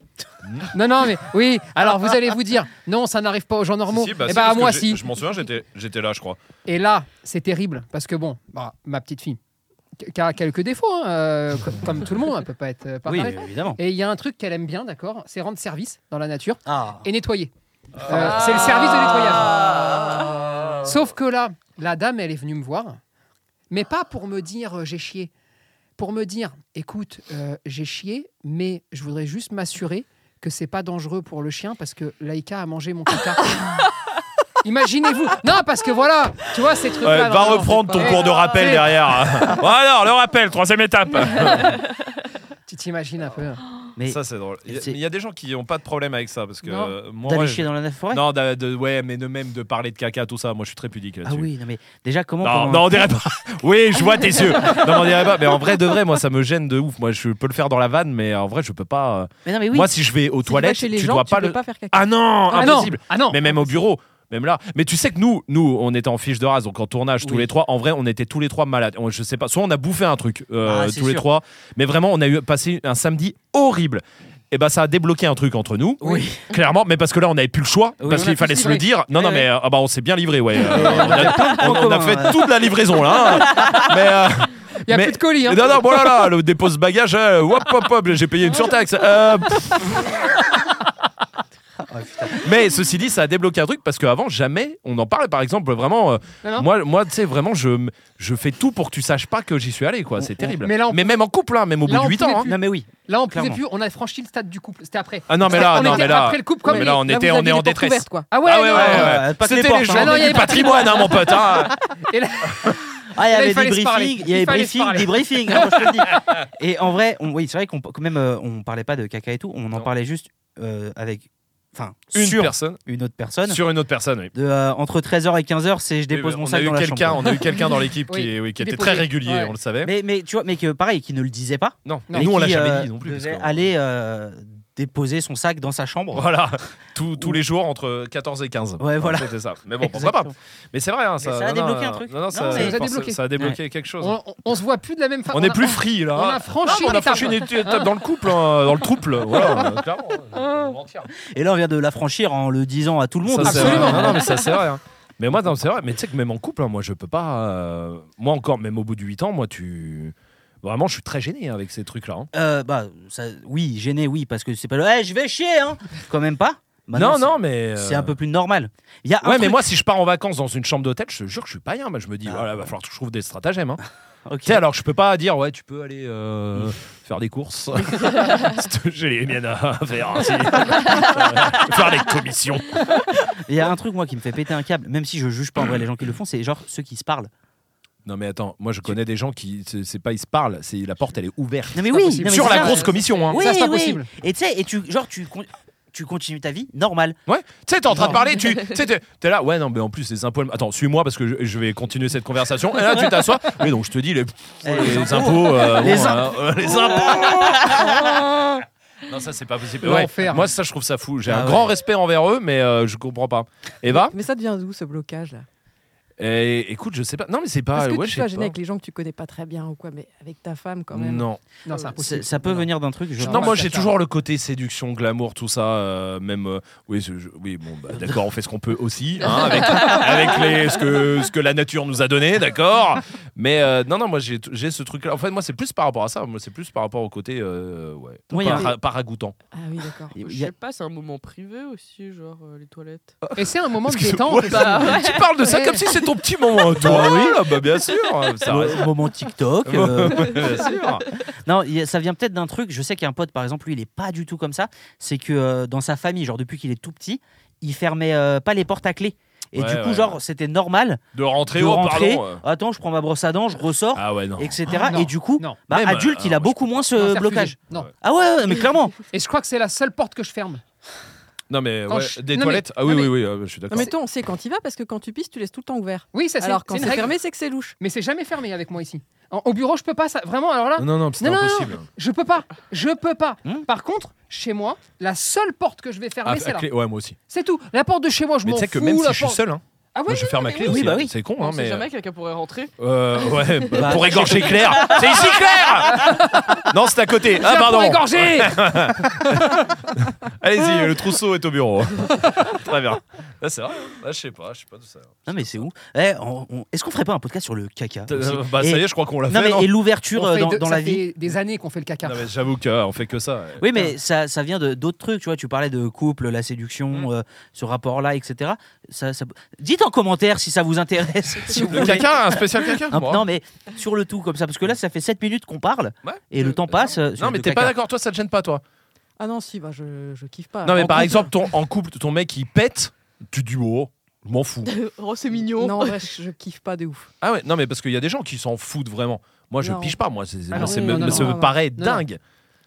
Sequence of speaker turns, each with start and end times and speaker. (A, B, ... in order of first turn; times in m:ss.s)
0:00.4-0:00.7 A
0:00.7-0:05.0 B
0:03.9-0:06.4 A
0:06.6-0:09.4 B
0:10.0-0:17.5 B
0:13.0-0:13.8 C
0:16.6-0:17.0 C
0:18.0-0:19.6 B
0:18.7-0:20.2 D
0:20.8-0:23.0 B
0:23.7-0:25.3 B
0:26.0-0:33.6 B
0:34.6-0:39.0 B
0:37.0-0:41.8 A
0:42.7-0:43.6 B
0:44.0-0:45.0 C
0:44.1-0:51.5 A
0:46.6-0:47.0 B
0:47.2-0:48.2 C
0:51.2-0:53.0 C
0:52.4-1:30.2 A
0:59.4-0:59.9 C
1:00.4-1:02.9 E
1:02.5-1:03.7 B
1:07.2-1:07.5 C
1:10.6-1:11.3 C
1:16.0-1:16.5 C
1:18.0-1:18.4 C
1:18.0-1:19.4 B
1:20.7-1:21.3 B
1:20.7-1:22.4 C
1:24.8-1:26.2 B
1:31.8-1:32.4 C
1:32.3-1:42.5 A
1:40.2-1:40.5 C
1:40.4-1:41.2 B
1:41.8-1:47.0 B
1:42.4-1:43.6 C
1:45.3-1:51.7 A
1:45.7-1:46.0 E
1:46.6-1:48.3 E
1:48.3-1:49.2 B
1:48.7-1:50.6 C
1:49.9-1:55.9 B
1:53.1-2:03.6 C
2:02.1-2:02.8 A
2:03.5-2:04.3 A
2:04.3-2:07.2 C
2:06.1-2:09.9 A
2:08.1-2:09.5 B
2:09.8-2:16.3 C
2:11.8-2:13.7 A
2:16.1-2:24.2 A
2:18.8-2:20.3 C
2:21.2-2:22.8 C
2:22.5-2:23.2 B
2:24.0-2:27.9 B
2:25.3-2:31.1 A
2:26.7-2:27.4 D
2:29.4-2:29.6 B
2:30.4-2:30.7 B
2:31.2-2:34.2 C
2:33.3-2:42.3 A
2:33.4-2:34.3 B
2:42.3-2:49.6 C
2:46.9-2:48.1 A
2:49.2-2:53.8 A
2:52.2-2:52.7 C
2:54.2-2:54.6 C
2:54.4-3:03.3 A
3:00.8-3:01.5 D
3:03.4-3:07.3 C
3:08.0-3:13.4 A
3:11.7-3:17.2 C
3:11.9-3:14.1 B
3:12.5-3:13.4 D
3:17.3-3:28.2 A
3:17.9-3:18.2 C
3:22.8-3:23.1 C
3:24.6-3:27.5 C
3:29.0-3:34.1 A
3:29.8-3:30.5 B
3:31.2-3:31.7 C
3:33.8-3:35.4 E
3:36.2-3:38.5 A
3:37.7-3:41.3 E
3:40.9-3:41.4 A
3:41.6-3:44.0 B
3:42.0-3:43.7 C
3:43.2-3:59.3 A
3:47.9-3:48.2 C
3:49.2-3:50.6 D
3:58.3-3:58.7 C
3:59.5-4:00.2 E
4:00.1-4:00.5 C
4:00.2-4:03.1 D
4:03.2-4:08.9 A
4:03.4-4:05.8 B
4:04.5-4:05.3 D
4:06.7-4:07.5 C
4:08.4-4:10.5 C
4:09.6-4:11.0 A
4:10.3-4:11.0 D
4:11.4-4:21.0 C
4:19.5-4:20.2 A
4:21.1-4:22.4 A
4:21.5-4:29.0 C
4:23.9-4:24.8 A
4:24.7-4:25.6 B
4:25.7-4:26.9 A
4:27.0-4:27.9 B
4:29.1-4:30.6 B
4:31.5-4:33.9 A
4:31.9-4:33.1 B
4:33.7-4:37.7 E
4:36.1-4:37.1 B
4:37.8-4:46.7 B
4:40.8-4:41.9 A
4:46.2-4:47.2 A
4:47.3-4:49.4 B
4:48.4-4:51.8 A
4:49.9-4:50.9 B
4:50.6-4:51.1 C
4:51.4-4:55.8 D
4:52.8-5:05.6 A
4:53.7-4:55.0 C
4:55.9-4:56.7 B
4:57.3-4:59.6 B
5:05.2-5:11.0 C
5:08.1-5:09.7 A
5:10.1-5:12.3 B
5:12.0-5:13.6 A
5:13.6-5:27.7 C
5:21.5-5:23.2 A
5:26.0-5:28.6 A
5:29.2-5:31.3 E
5:30.6-5:34.7 A
5:30.8-5:31.1 C
5:34.6-5:36.1 D
5:35.6-5:37.1 E
5:37.2-5:42.2 A
5:39.6-5:40.0 E
5:40.5-5:42.0 B
5:40.5-5:41.6 E